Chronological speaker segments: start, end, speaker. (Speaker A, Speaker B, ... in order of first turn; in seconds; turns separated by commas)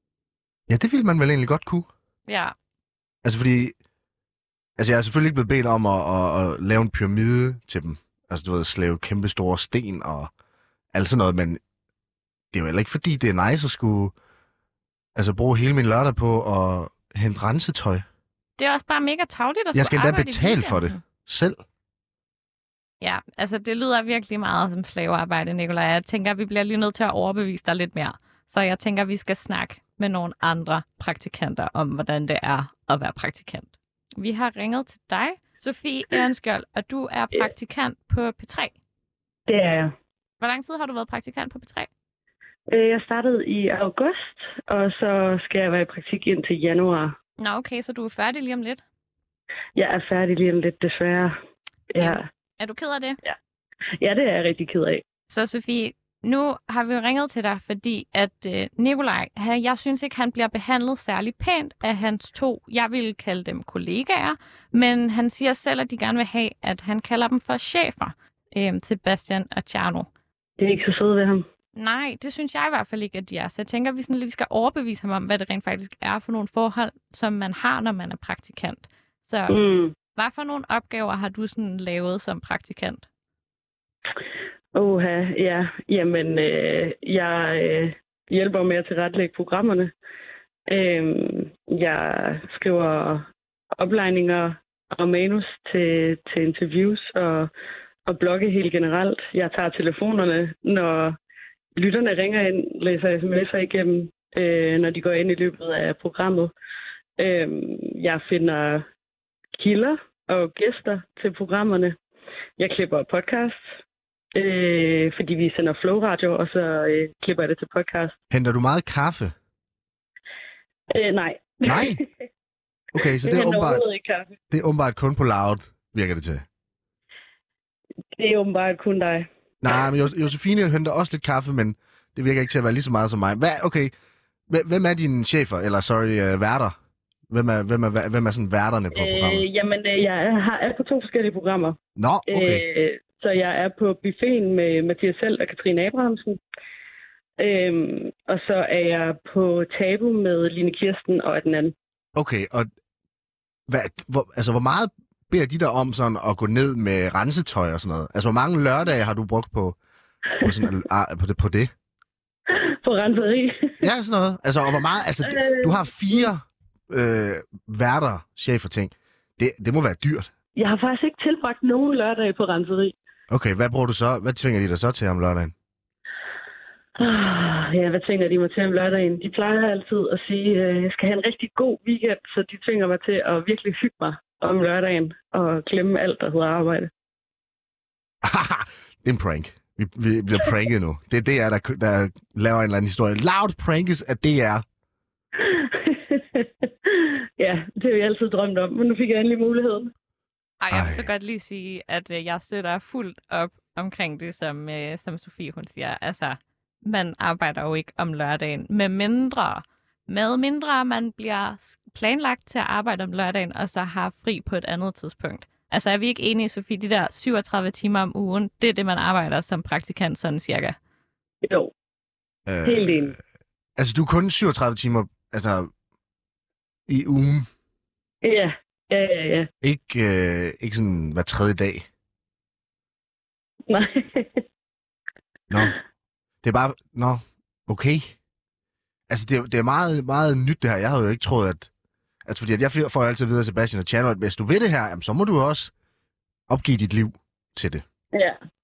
Speaker A: 0.7-1.9, Speaker B: 2.3-2.5, Speaker A: 3.2-3.8, Speaker A: 4.8-10.3, Speaker A: 10.9-11.6, Speaker A: 12.5-14.1, Speaker A: 15.2-18.1, Speaker B: 18.6-21.0, Speaker A: 19.7-21.6, Speaker B: 23.0-38.7, Speaker C: 39.5-39.9, Speaker B: 40.4-41.9, Speaker C: 42.7-47.1, Speaker B: 47.4-48.8, Speaker C: 49.8-51.3, Speaker C: 51.9-52.2, Speaker B: 52.0-53.2, Speaker C: 54.0-55.0, Speaker B: 55.3-70.1, Speaker C: 70.6-71.4, Speaker B: 71.8-79.5, Speaker C: 79.5-79.9, Speaker B: 80.2-83.0, Speaker C: 84.8-89.9, Speaker C: 90.7-93.3, Speaker C: 93.8-97.5, Speaker C: 98.1-101.2, Speaker C: 101.8-106.5, Speaker C: 107.2-108.8, Speaker C: 109.6-112.0, Speaker C: 112.6-113.7, Speaker C: 114.3-118.1, Speaker A: 118.3-119.3, Speaker C: 120.9-122.0, Speaker A: 121.7-122.0, Speaker A: 122.9-123.8, Speaker C: 123.2-124.3, Speaker A: 124.5-126.5, Speaker C: 128.2-129.3, Speaker A: 129.6-133.9, Speaker A: 134.5-136.7, Speaker A: 137.3-139.5, Speaker C: 138.9-141.8, Speaker A: 142.0-142.6, Speaker C: 142.3-146.4, Speaker C: 147.4-151.7, Speaker A: 152.2-152.7, Speaker A: 153.7-159.8, Speaker A: 160.4-161.7, Speaker C: 162.5-163.8, Speaker A: 163.8-170.3, Speaker C: 165.2-166.3, Speaker C: 170.6-172.9, Speaker A: 173.3-175.5, Speaker C: 177.0-186.9, Speaker A: 188.2-194.6, Speaker C: 195.4-199.9, Speaker B: 200.6-220.8, Speaker A: 200.7-201.1, Speaker C: 221.4-221.7, Speaker A: 222.5-223.2, Speaker C: 222.7-223.2, Speaker A: 223.8-225.7, Speaker A: 226.9-227.5, Speaker C: 228.2-229.5, Speaker A: 229.6-231.9, Speaker C: 233.7-234.4, Speaker A: 236.4-238.1, Speaker A: 239.1-241.7, Speaker A: 242.3-245.7, Speaker A: 246.5-247.8, Speaker C: 248.1-248.4